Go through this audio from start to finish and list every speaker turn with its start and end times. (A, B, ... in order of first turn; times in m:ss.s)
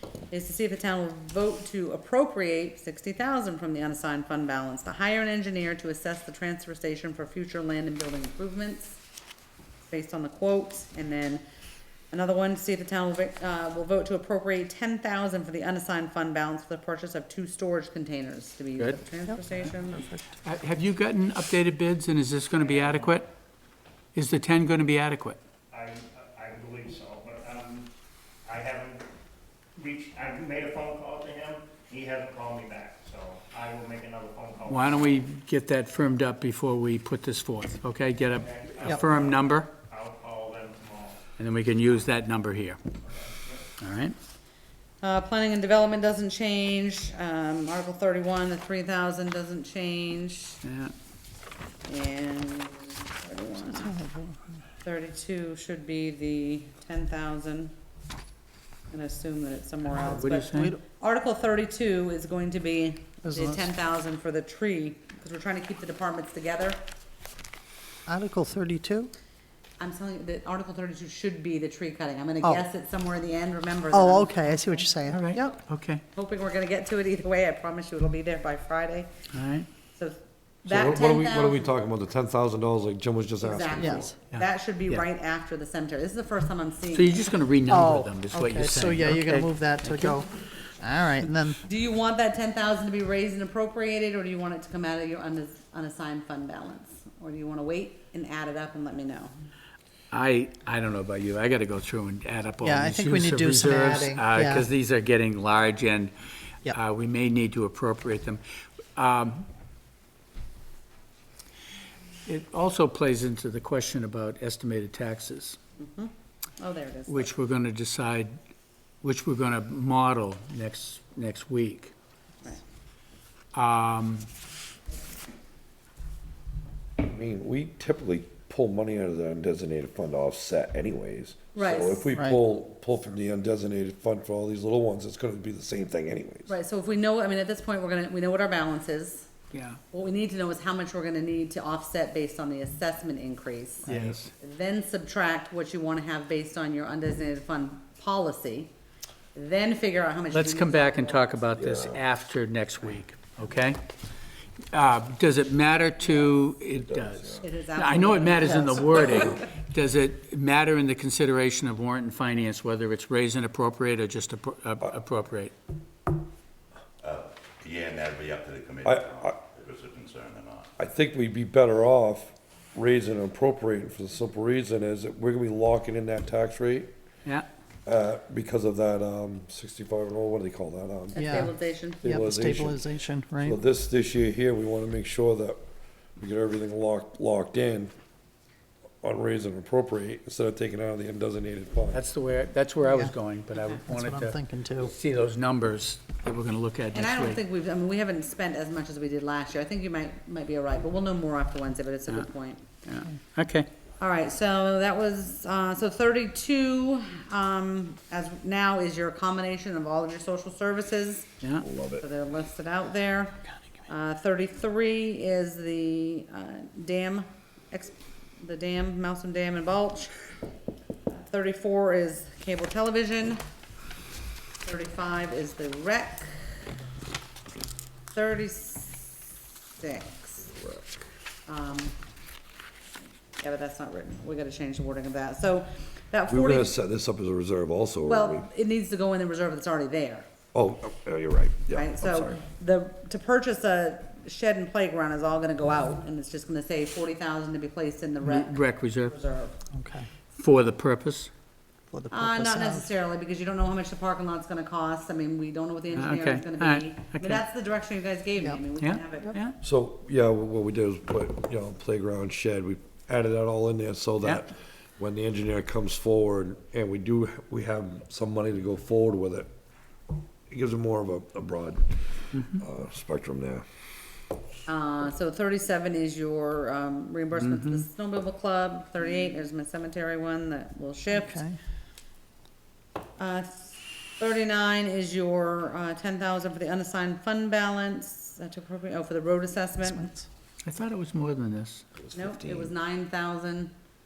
0:00.3-0:09.0 A
0:09.9-0:11.4 A
0:12.1-0:20.0 A
0:20.0-0:20.2 B
0:20.4-0:23.3 C
0:22.6-0:23.2 D
0:24.1-0:25.4 C
0:25.7-0:27.9 D
0:28.4-0:29.0 D
0:29.8-0:35.2 D
0:34.7-0:39.7 C
0:38.4-0:41.2 D
0:41.4-0:42.8 C
0:43.0-0:43.6 D
0:43.8-0:44.2 C
0:45.0-0:50.6 A
0:50.6-0:50.9 C
0:51.8-0:53.9 A
0:53.6-0:54.6 B
0:54.8-0:57.7 A
0:58.9-1:06.8 A
1:00.0-1:00.7 C
1:00.5-1:00.8 B
1:03.2-1:03.7 B
1:08.1-1:09.1 B
1:09.8-1:15.0 A
1:13.9-1:15.5 B
1:15.1-1:16.0 C
1:16.1-1:19.1 A
1:19.3-1:19.7 C
1:19.9-1:21.7 A
1:20.6-1:24.1 E
1:23.4-1:27.2 A
1:23.8-1:24.1 B
1:24.3-1:25.0 C
1:26.9-1:30.2 C
1:27.7-1:31.6 B
1:31.6-1:39.3 A
1:40.1-1:46.1 C
1:42.6-1:44.6 B
1:46.6-1:48.4 C
1:48.9-1:49.5 C
1:52.2-1:55.6 C
1:55.8-1:57.3 A
1:57.1-1:58.3 C
1:59.0-2:01.9 C
2:03.5-2:04.3 C
2:07.0-2:16.5 E
2:11.5-2:12.0 A
2:16.5-2:19.3 A
2:19.5-2:19.8 C
2:19.9-2:28.7 A
2:23.9-2:24.3 C
2:29.3-2:31.2 A
2:30.3-2:33.8 C
2:31.6-2:32.0 E
2:34.7-2:45.5 C
2:36.7-2:37.4 E
2:37.4-2:39.4 A
2:47.0-2:50.7 F
2:48.8-2:49.4 E
2:50.8-2:56.9 E
2:57.8-3:02.9 E
3:01.1-3:02.0 A
3:01.2-3:03.6 B
3:03.4-3:05.6 E
3:06.2-3:07.9 E
3:09.0-3:12.0 E
3:11.9-3:17.4 C
3:12.8-3:13.1 B
3:13.8-3:14.9 B
3:16.9-3:22.6 A
3:22.8-3:23.7 C
3:24.0-3:31.3 A
3:31.6-3:32.0 E
3:32.0-3:40.2 A
3:41.1-3:43.4 A
3:44.6-3:46.7 A
3:48.1-3:50.6 A
3:51.5-3:52.0 A
3:53.4-3:56.7 A
3:56.3-3:58.5 E
3:58.0-4:00.3 A
4:00.5-4:02.4 E
4:01.7-4:09.6 A
4:08.2-4:09.1 C
4:09.7-4:10.1 B
4:10.4-4:11.3 C
4:11.9-4:12.9 B
4:12.1-4:19.4 A
4:15.9-4:17.4 C
4:18.8-4:19.6 C
4:19.6-4:29.5 E
4:30.5-4:32.0 E
4:32.3-4:32.6 C
4:32.5-4:33.6 E
4:34.7-4:41.4 A
4:37.4-4:37.9 C
4:41.1-4:41.6 B
4:43.2-4:50.1 A
4:49.9-4:50.2 B
4:50.6-4:51.8 C
4:52.0-4:52.7 E
4:52.1-4:53.7 A